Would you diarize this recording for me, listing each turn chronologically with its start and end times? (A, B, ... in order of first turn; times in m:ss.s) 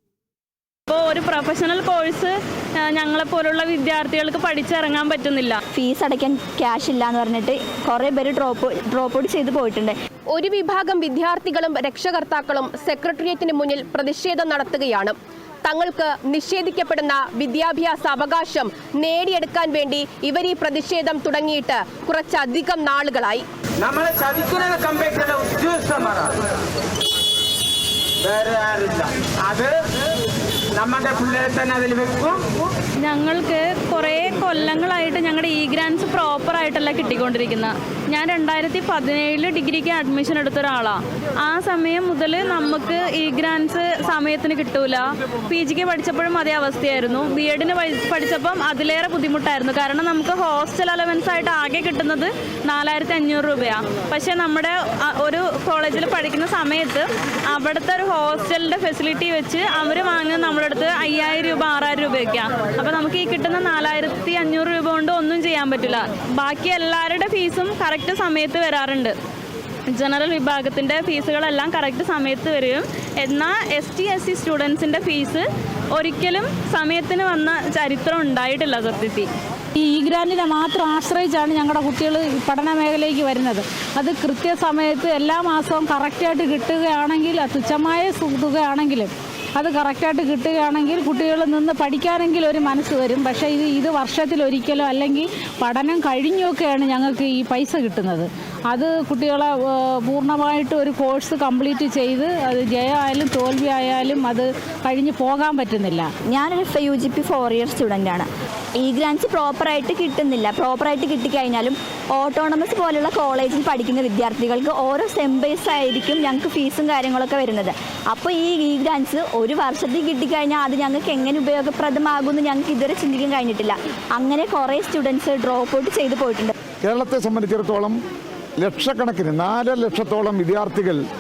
0:00.9-0:05.6 A
0:05.7-0:10.0 B
0:10.3-0:23.4 C
0:23.8-0:26.4 D
0:28.2-0:29.7 D
0:30.8-0:32.4 D
0:33.0-1:09.1 A
1:09.9-1:19.3 A
1:19.8-1:46.1 E
1:46.3-2:06.5 B
2:06.8-2:08.0 F
2:08.6-2:11.0 F